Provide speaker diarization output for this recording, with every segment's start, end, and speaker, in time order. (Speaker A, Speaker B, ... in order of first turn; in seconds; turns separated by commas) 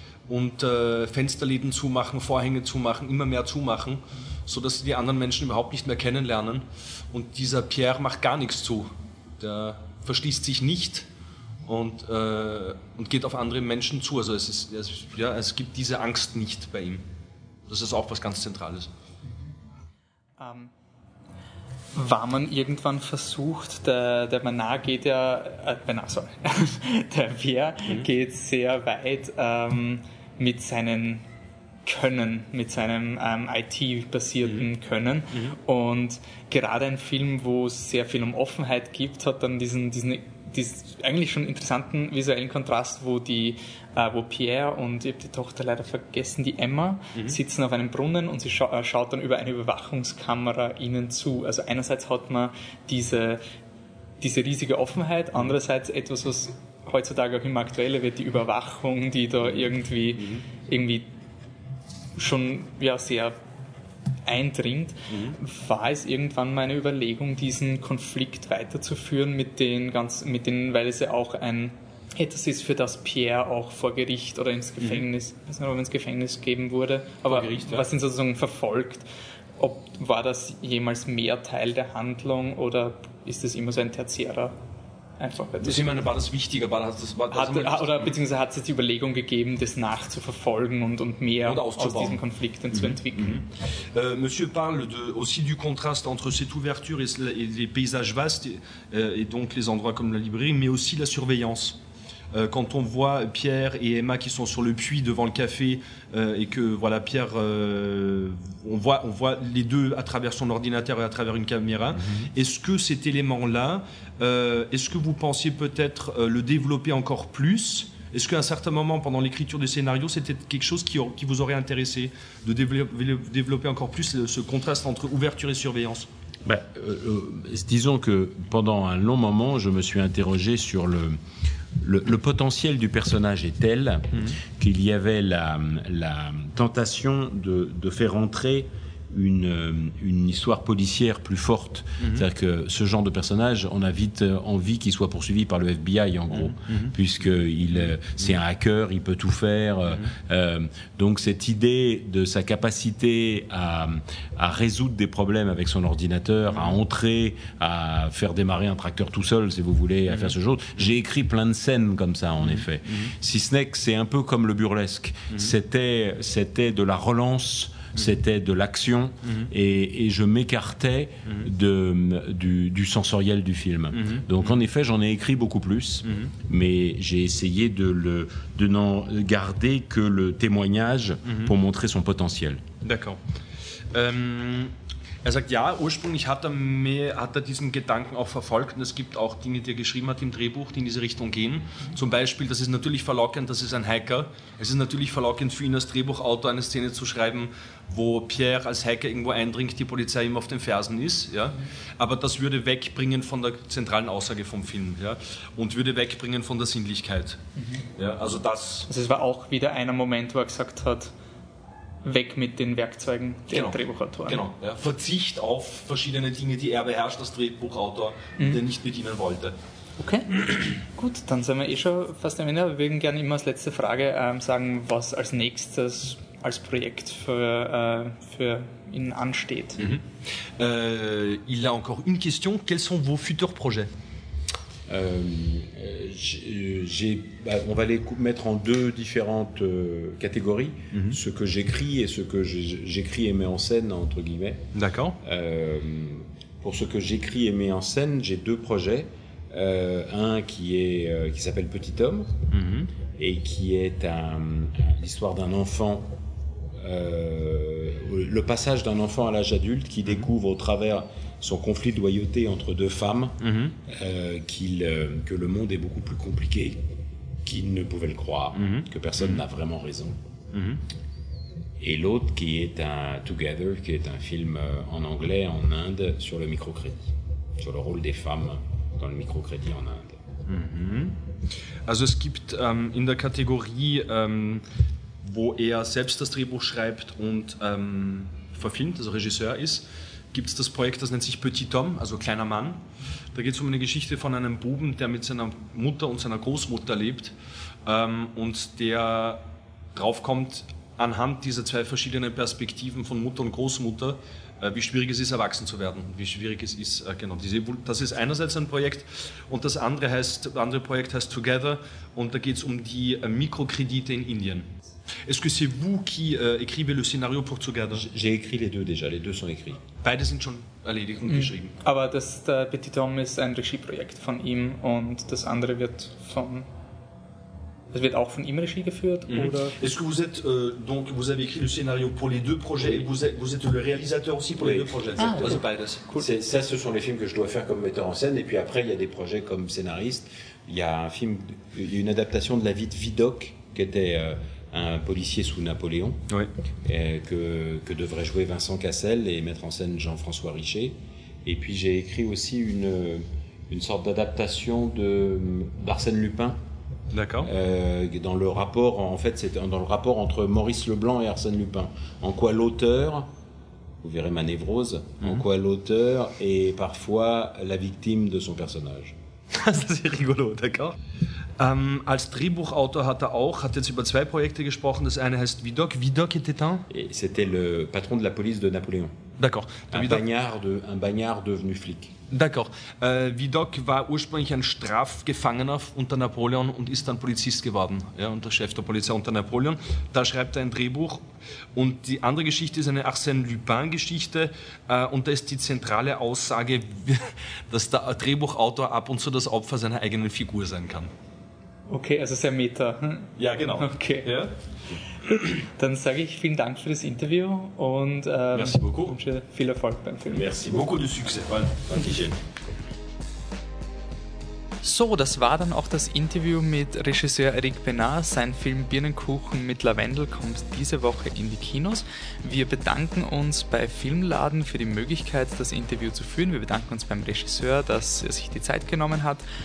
Speaker A: 0.3-11.1, Speaker A: 11.7-17.0, Speaker A: 17.7-18.9, Speaker B: 20.4-20.7, Speaker B: 21.9-31.2, Speaker B: 31.8-53.4, Speaker B: 54.2-61.1, Speaker B: 62.1-63.4, Speaker B: 64.2-79.0, Speaker A: 77.3-77.8, Speaker B: 79.6-84.5, Speaker B: 85.2-86.1, Speaker A: 85.6-88.1, Speaker B: 87.3-93.5, Speaker A: 91.4-92.2, Speaker A: 92.7-101.8, Speaker A: 102.3-126.1, Speaker C: 126.4-131.2, Speaker C: 131.8-182.6, Speaker A: 142.0-142.2, Speaker A: 146.3-146.9, Speaker A: 162.4-163.1, Speaker A: 173.9-174.6, Speaker A: 176.0-176.3, Speaker A: 181.2-181.5, Speaker A: 182.8-183.2, Speaker A: 183.9-184.7, Speaker A: 185.2-207.4, Speaker B: 207.6-207.8, Speaker A: 207.9-208.9, Speaker B: 208.9-211.1, Speaker B: 212.0-214.4, Speaker A: 213.5-219.5, Speaker B: 220.0-229.8, Speaker A: 230.6-233.9, Speaker C: 234.9-244.6, Speaker A: 240.9-241.2, Speaker A: 244.7-245.2, Speaker C: 245.2-252.3, Speaker A: 252.5-252.9, Speaker C: 253.2-256.1, Speaker C: 256.8-266.8, Speaker A: 263.4-263.7, Speaker C: 267.4-270.2, Speaker A: 268.6-269.4, Speaker A: 270.5-270.8, Speaker C: 271.8-280.2, Speaker A: 280.5-281.2, Speaker A: 281.9-284.6, Speaker A: 285.2-292.8, Speaker A: 293.3-297.3, Speaker A: 297.9-299.4, Speaker A: 299.9-314.7, Speaker A: 315.3-318.0, Speaker C: 317.9-319.8, Speaker A: 320.0-321.7, Speaker B: 321.3-326.7, Speaker B: 327.9-329.8, Speaker A: 329.3-336.0, Speaker C: 334.6-335.6, Speaker B: 335.2-336.2, Speaker C: 336.1-346.2, Speaker C: 346.8-356.6, Speaker A: 357.1-357.5, Speaker C: 357.4-363.3, Speaker C: 364.0-369.1, Speaker A: 369.5-371.0, Speaker A: 371.6-376.9, Speaker C: 376.9-379.1, Speaker A: 379.4-380.2, Speaker C: 379.9-382.1, Speaker A: 382.3-391.2, Speaker A: 391.8-401.1, Speaker B: 401.9-404.4, Speaker A: 403.4-404.5, Speaker B: 405.2-410.5, Speaker A: 408.5-409.1, Speaker A: 410.3-412.3, Speaker B: 414.8-429.4